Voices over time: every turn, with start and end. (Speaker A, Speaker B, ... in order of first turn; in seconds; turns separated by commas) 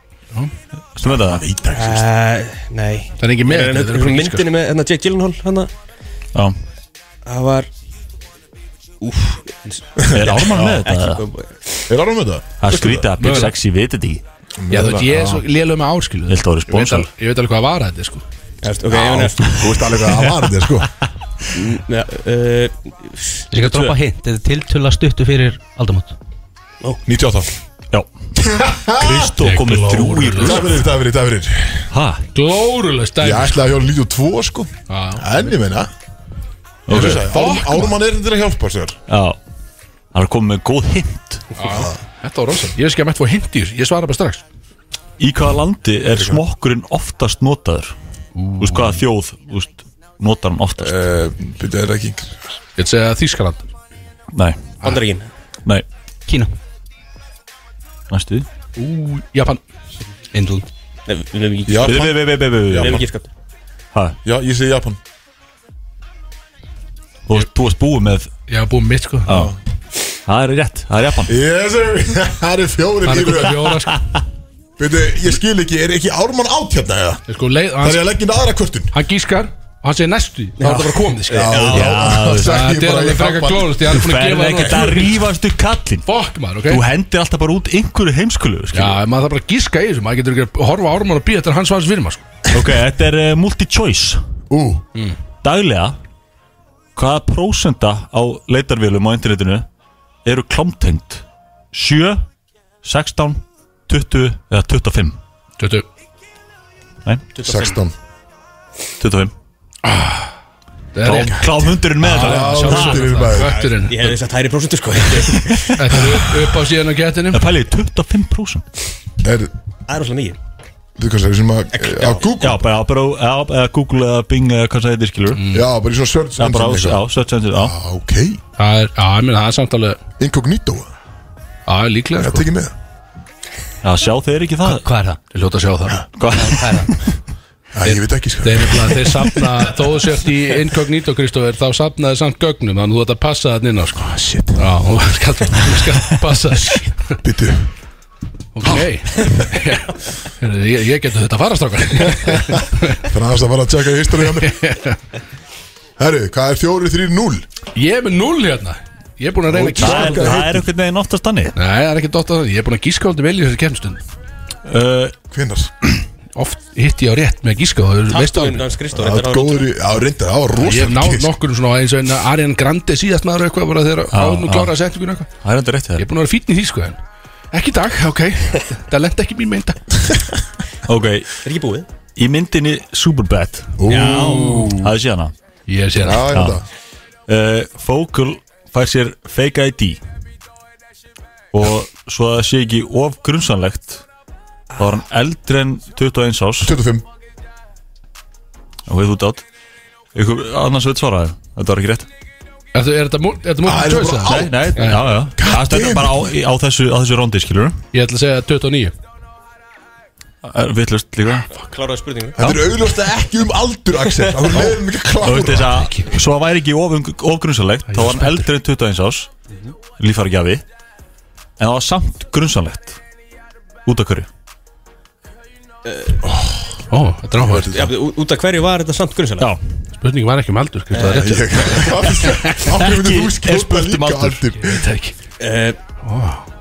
Speaker A: 0.9-1.4, Speaker B: 1.0-2.1, Speaker C: 1.7-5.7, Speaker D: 3.2-4.5, Speaker C: 7.2-7.7, Speaker C: 9.0-11.8, Speaker B: 10.0-10.8, Speaker A: 10.1-11.2, Speaker B: 11.9-13.1, Speaker A: 12.6-14.2, Speaker D: 13.2-13.5, Speaker B: 14.6-15.4, Speaker D: 14.7-18.2, Speaker A: 16.3-17.1, Speaker C: 18.6-19.6, Speaker B: 18.9-20.9, Speaker C: 21.5-23.4, Speaker E: 23.5-26.1, Speaker A: 23.6-23.9, Speaker B: 27.1-27.5, Speaker B: 28.6-29.3, Speaker A: 28.9-30.8, Speaker D: 29.4-30.6, Speaker B: 30.4-31.9, Speaker A: 31.9-32.2, Speaker D: 32.3-33.6, Speaker B: 33.2-35.9, Speaker D: 34.9-35.5, Speaker A: 36.9-37.2, Speaker B: 36.9-39.0, Speaker D: 36.9-37.9, Speaker A: 39.1-39.4, Speaker A: 40.1-41.5, Speaker D: 41.6-44.4, Speaker B: 41.6-42.0, Speaker A: 45.2-47.9, Speaker B: 46.1-46.4, Speaker D: 48.4-49.0, Speaker A: 48.6-51.0, Speaker B: 50.8-52.4, Speaker D: 52.8-53.6, Speaker A: 54.3-54.7, Speaker C: 54.8-55.3, Speaker E: 56.3-56.5, Speaker A: 58.1-58.5, Speaker D: 58.8-59.6, Speaker E: 60.3-60.6, Speaker C: 61.1-63.3, Speaker B: 61.7-63.0, Speaker A: 61.8-63.0, Speaker B: 64.2-65.0, Speaker A: 67.3-68.3, Speaker D: 68.5-69.3, Speaker A: 69.3-69.5, Speaker B: 69.3-69.5, Speaker A: 70.3-71.3, Speaker B: 71.3-73.9, Speaker D: 73.0-74.0, Speaker B: 74.8-77.2, Speaker D: 77.3-78.1, Speaker B: 77.8-78.9, Speaker D: 78.9-85.2, Speaker C: 80.6-82.0, Speaker B: 81.3-84.0, Speaker A: 81.7-82.5, Speaker A: 83.9-86.1, Speaker D: 86.0-86.8, Speaker A: 86.7-89.0, Speaker D: 88.7-92.2, Speaker A: 92.5-94.2, Speaker B: 94.5-94.8, Speaker A: 95.4-96.0, Speaker A: 97.0-99.7, Speaker A: 100.2-102.2, Speaker A: 102.8-105.2, Speaker D: 105.6-105.8, Speaker C: 107.3-107.8, Speaker B: 107.4-107.9, Speaker A: 109.0-109.3, Speaker D: 109.8-110.3, Speaker D: 110.9-111.4, Speaker A: 111.0-113.1, Speaker D: 112.0-114.1, Speaker B: 112.0-113.6, Speaker C: 113.3-115.8, Speaker D: 115.7-117.4, Speaker B: 116.1-116.4, Speaker A: 117.3-118.6, Speaker B: 119.2-119.5, Speaker C: 119.9-120.4, Speaker B: 121.0-122.7, Speaker C: 121.7-122.2, Speaker A: 122.4-125.4, Speaker D: 125.3-125.7, Speaker B: 125.5-127.0, Speaker A: 126.4-127.7, Speaker B: 127.5-128.4, Speaker D: 128.6-130.0, Speaker B: 130.2-130.9, Speaker D: 131.7-132.5, Speaker B: 132.2-132.7, Speaker A: 133.8-134.9, Speaker E: 134.7-135.2, Speaker D: 135.3-136.0, Speaker A: 136.2-136.7, Speaker E: 136.3-136.9, Speaker B: 137.7-139.3, Speaker D: 137.8-147.2, Speaker B: 144.0-144.6, Speaker B: 147.2-147.7, Speaker D: 148.5-153.0, Speaker B: 153.0-154.6, Speaker D: 154.4-155.0, Speaker B: 156.0-157.4, Speaker D: 157.7-160.5, Speaker B: 159.5-160.6, Speaker A: 159.8-161.5, Speaker D: 161.6-164.0, Speaker A: 164.7-165.1, Speaker B: 165.3-165.9, Speaker D: 166.3-168.6, Speaker C: 168.1-169.7, Speaker B: 168.9-171.3, Speaker D: 170.6-175.3, Speaker A: 174.1-174.7, Speaker A: 175.4-176.0, Speaker D: 176.0-177.0, Speaker D: 177.5-179.8, Speaker A: 180.8-181.3, Speaker C: 181.4-181.9, Speaker A: 182.2-184.2, Speaker B: 183.8-184.9, Speaker C: 183.9-184.7, Speaker A: 184.8-185.3, Speaker D: 185.7-186.3, Speaker B: 186.0-186.6, Speaker A: 186.3-186.6, Speaker A: 187.3-190.0, Speaker A: 191.5-194.0, Speaker A: 194.8-196.7, Speaker B: 196.6-197.0, Speaker A: 198.9-199.4, Speaker A: 200.1-202.1, Speaker D: 202.7-205.0, Speaker B: 203.6-206.3, Speaker A: 204.2-207.8, Speaker D: 207.9-208.9, Speaker A: 210.4-211.5, Speaker C: 211.5-212.4, Speaker B: 212.4-215.9, Speaker C: 214.1-214.6, Speaker A: 215.2-219.3, Speaker D: 215.7-216.0, Speaker D: 217.9-218.5, Speaker A: 220.0-220.6, Speaker A: 221.6-223.0, Speaker A: 223.8-224.3, Speaker C: 225.8-226.2, Speaker B: 226.2-226.8, Speaker D: 226.9-227.8, Speaker B: 227.5-227.9, Speaker C: 227.5-229.5, Speaker D: 230.0-232.6, Speaker C: 230.9-231.3, Speaker B: 231.0-234.8, Speaker A: 232.8-234.4, Speaker D: 234.6-235.1, Speaker C: 235.4-235.8, Speaker D: 236.0-236.4